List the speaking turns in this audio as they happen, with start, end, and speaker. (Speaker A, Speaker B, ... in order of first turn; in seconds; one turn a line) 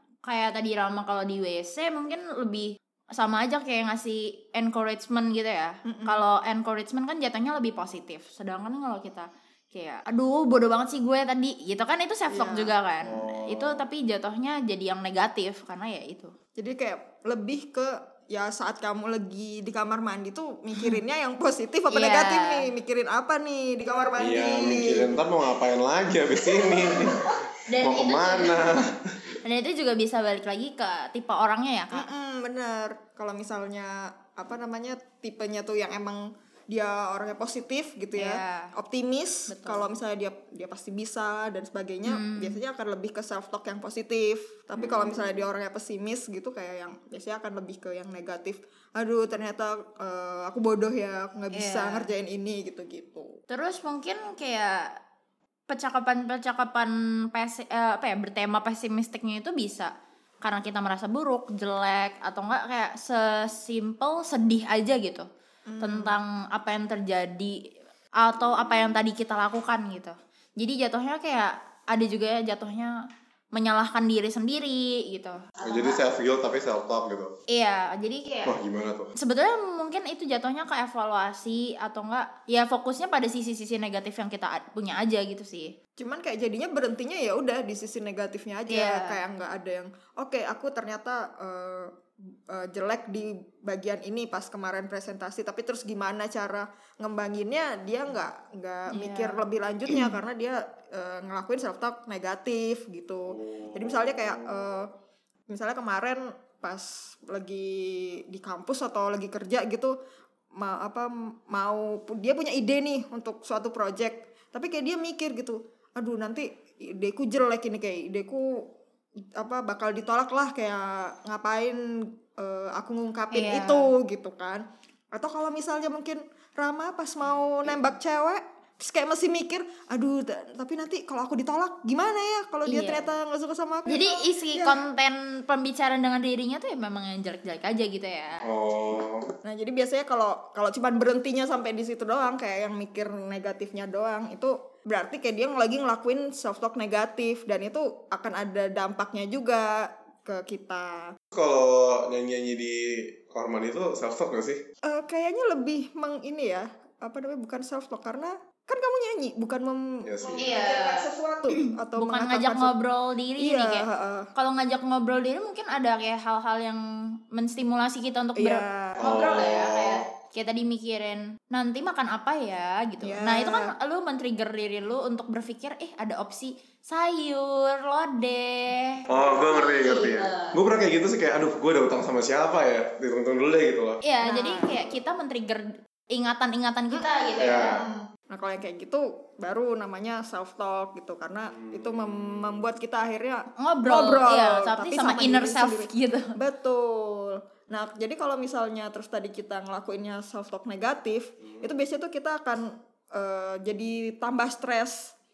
Speaker A: 0.2-16.3
Speaker B: 5.9-6.2
Speaker B: 12.3-12.7
Speaker C: 13.0-13.9
Speaker B: 16.6-25.1
Speaker A: 21.9-22.7
Speaker C: 24.1-29.2
Speaker A: 27.7-28.7
Speaker A: 29.4-32.0
Speaker B: 31.9-53.3
Speaker A: 38.1-38.7
Speaker A: 39.5-39.9
Speaker A: 42.1-42.6
Speaker C: 44.8-45.4
Speaker A: 51.5-52.1
Speaker A: 53.5-54.8
Speaker A: 55.7-59.9
Speaker A: 60.4-65.2
Speaker B: 65.7-66.2
Speaker A: 65.8-67.5
Speaker A: 68.2-72.9
Speaker A: 73.5-76.0
Speaker C: 75.6-77.3
Speaker A: 77.5-78.6
Speaker C: 78.4-79.1
Speaker A: 79.2-85.7
Speaker B: 86.0-91.9
Speaker A: 88.7-89.2
Speaker B: 92.5-104.9
Speaker A: 98.9-99.4
Speaker C: 103.4-104.3
Speaker B: 105.5-109.9
Speaker B: 110.6-118.4
Speaker B: 119.4-121.8
Speaker B: 122.4-134.8
Speaker A: 123.3-123.9
Speaker A: 132.7-133.1
Speaker A: 133.9-138.4
Speaker C: 138.4-139.3
Speaker B: 139.4-151.1
Speaker C: 151.3-154.6
Speaker B: 154.8-162.7
Speaker C: 160.0-160.5
Speaker A: 160.4-163.8
Speaker B: 163.4-164.3
Speaker A: 164.3-166.8
Speaker A: 167.3-180.6
Speaker B: 168.3-169.2
Speaker C: 169.0-170.0
Speaker B: 173.0-173.7
Speaker C: 179.1-184.0
Speaker A: 184.0-187.8
Speaker B: 184.2-184.8
Speaker C: 187.4-187.8
Speaker B: 187.7-205.1
Speaker C: 191.6-192.4
Speaker A: 193.6-196.3